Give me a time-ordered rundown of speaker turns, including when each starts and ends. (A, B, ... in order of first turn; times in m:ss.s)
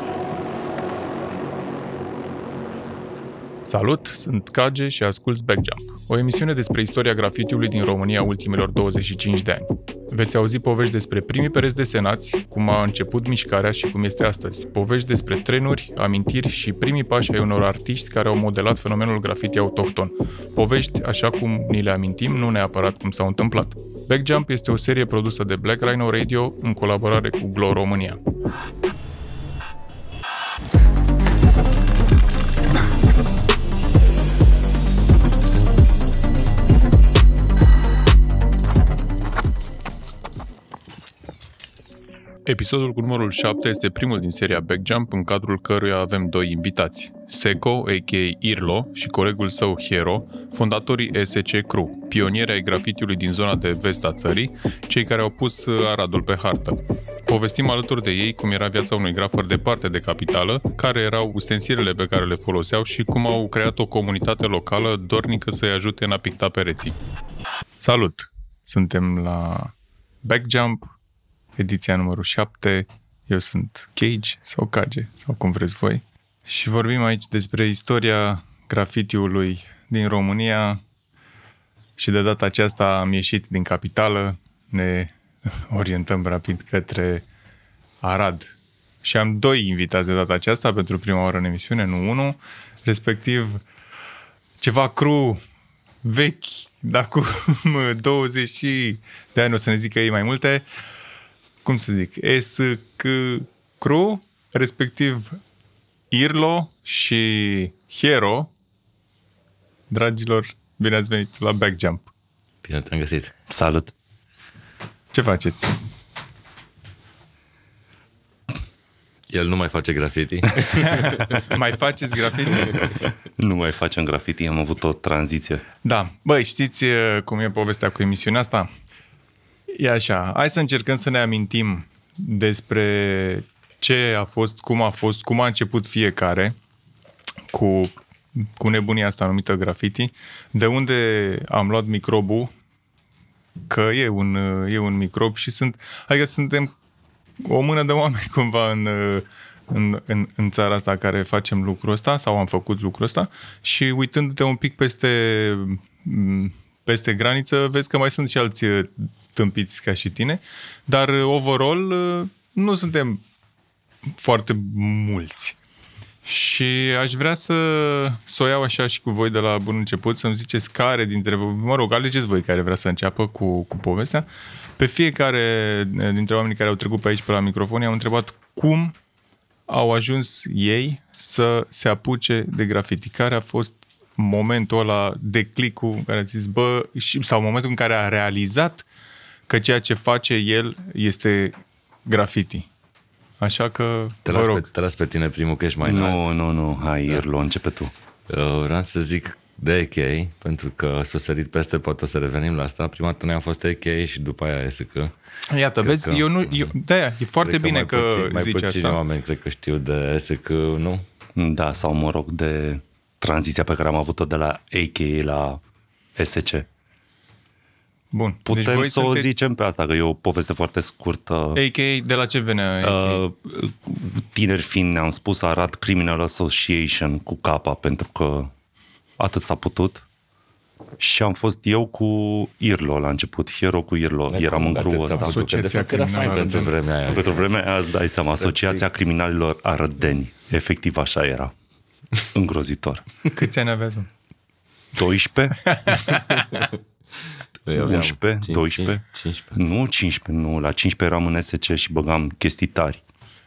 0:03.6-0:28.2 A
0:42.4-1:07.0 A
1:07.8-1:10.9 A
1:11.6-1:20.8 A
1:22.0-1:27.2 A
1:28.0-1:33.6 A
1:34.6-1:35.4 A
1:36.0-1:40.6 A
1:41.6-1:45.4 A
1:46.1-1:48.5 A
1:49.9-1:52.1 A
1:52.6-1:53.3 B
1:53.5-1:53.9 C
1:55.1-1:55.8 A
1:59.3-2:01.4 B
2:00.6-2:02.9 A
2:03.4-2:05.6 C
2:05.8-2:08.7 A
2:09.7-2:16.6 A
2:17.5-2:22.5 A
2:23.7-2:26.7 A
2:27.4-2:43.2 A
2:44.1-2:45.6 A
2:46.2-2:59.0 A
2:59.7-3:08.9 A
3:09.5-3:12.7 A
3:13.4-3:14.7 A
3:14.3-3:16.2 B
3:15.8-3:17.9 C
3:18.3-3:25.1 B
3:25.5-3:29.0 A
3:25.8-3:26.8 B
3:27.4-3:31.0 B
3:31.4-3:35.6 C
3:36.2-3:36.7 C
3:38.1-3:39.5 A
3:38.5-3:41.6 C
3:41.6-3:43.2 A
3:42.8-3:48.5 C
3:49.2-3:50.1 C
3:51.0-3:55.4 C
3:54.3-3:57.4 B
3:55.1-3:56.7 A
3:57.1-4:01.5 C
3:58.4-3:58.8 B
4:02.3-4:03.0 C
4:03.2-4:04.1 A
4:05.0-4:05.8 C
4:05.7-4:06.6 A
4:06.3-4:06.8 B
4:07.7-4:09.6 B
4:07.8-4:09.0 C
4:09.6-4:13.0 C